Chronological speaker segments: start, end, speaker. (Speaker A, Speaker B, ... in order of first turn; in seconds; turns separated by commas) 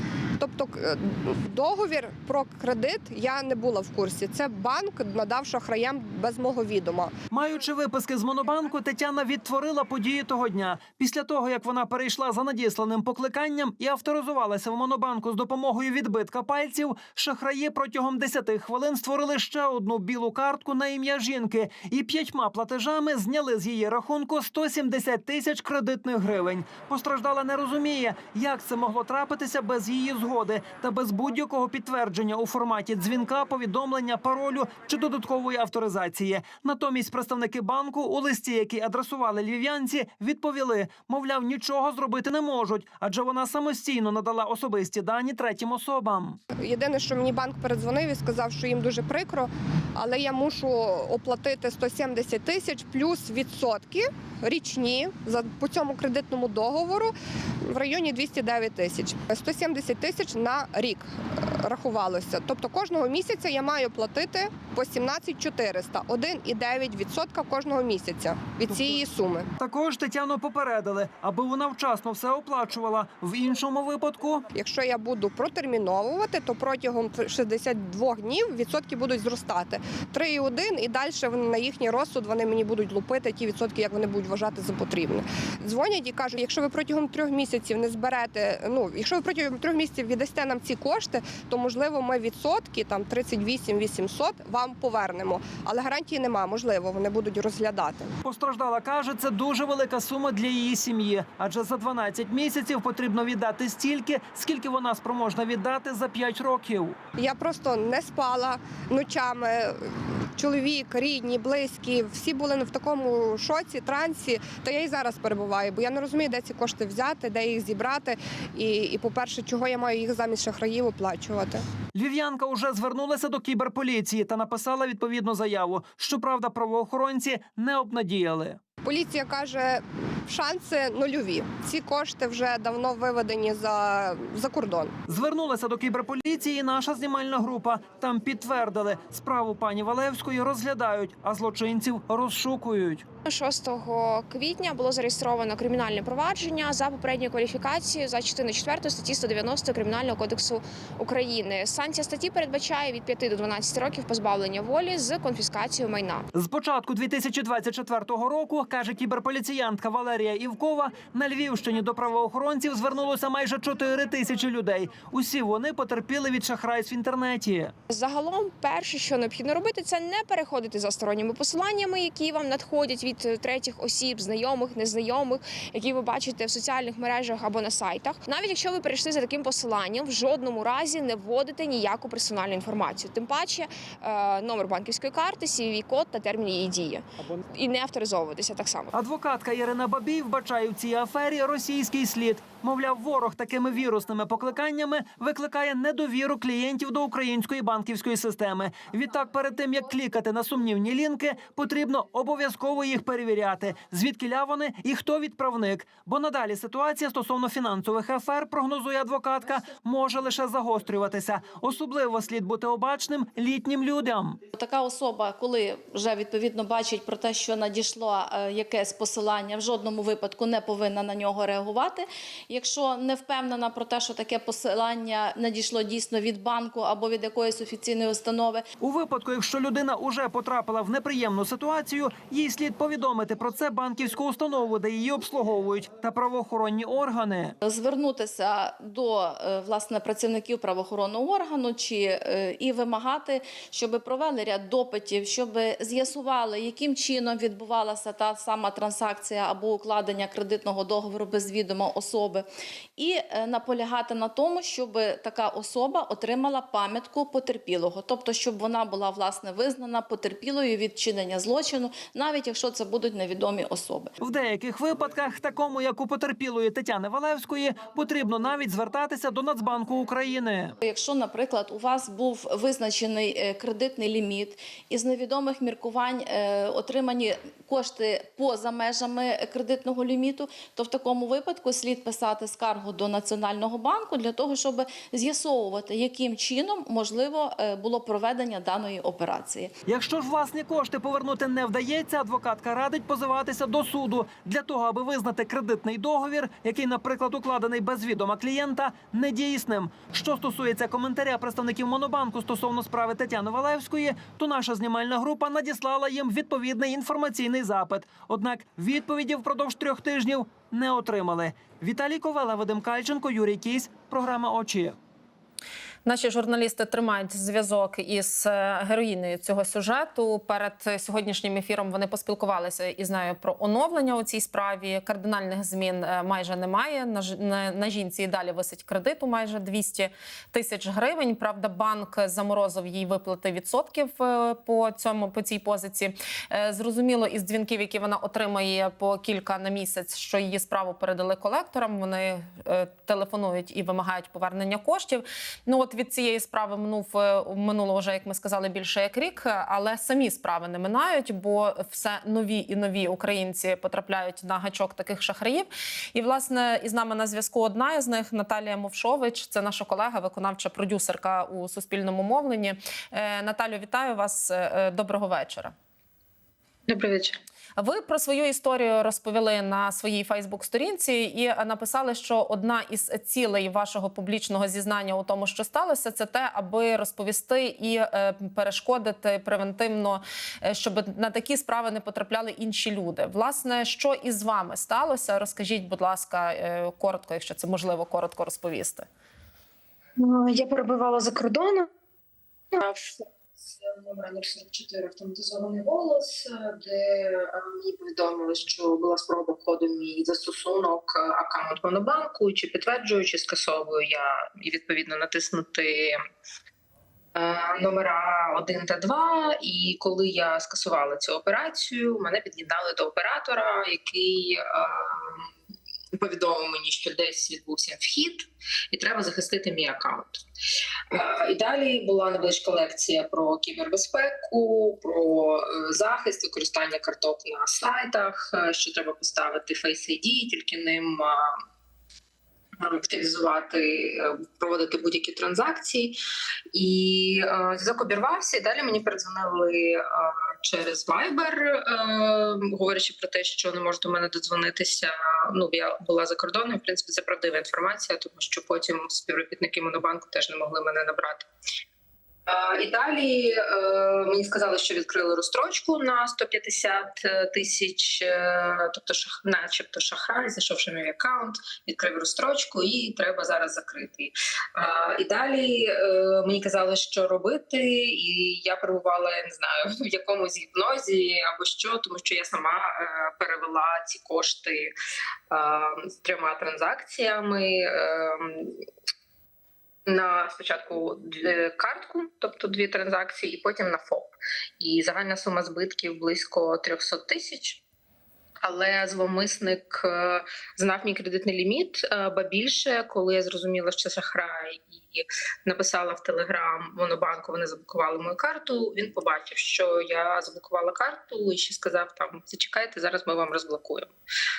Speaker A: 0.4-7.1, Speaker B: 7.3-46.4, Speaker A: 46.5-69.5, Speaker B: 69.6-74.4, Speaker A: 74.5-98.1, Speaker B: 98.2-107.0, Speaker A: 107.2-121.7, Speaker B: 121.9-128.6, Speaker A: 128.8-134.9, Speaker B: 135.1-143.1, Speaker C: 143.2-156.3, Speaker B: 156.3-167.7, Speaker C: 167.9-188.9, Speaker B: 188.9-214.4, Speaker D: 214.5-228.7, Speaker B: 228.8-237.6, Speaker D: 237.6-252.4, Speaker D: 253.0-264.1, Speaker B: 264.2-270.8, Speaker D: 270.8-289.7, Speaker B: 289.9-314.9, Speaker E: 316.0-365.7, Speaker F: 366.9-367.4, Speaker E: 367.8-389.1, Speaker F: 390.2-391.9, Speaker F: 392.7-406.2, Speaker F: 407.3-415.5, Speaker F: 416.1-420.4, Speaker F: 421.1-431.5, Speaker F: 432.8-436.1, Speaker F: 436.7-451.5, Speaker F: 452.5-474.9, Speaker F: 475.5-478.8, Speaker F: 480.1-487.8, Speaker F: 488.6-504.1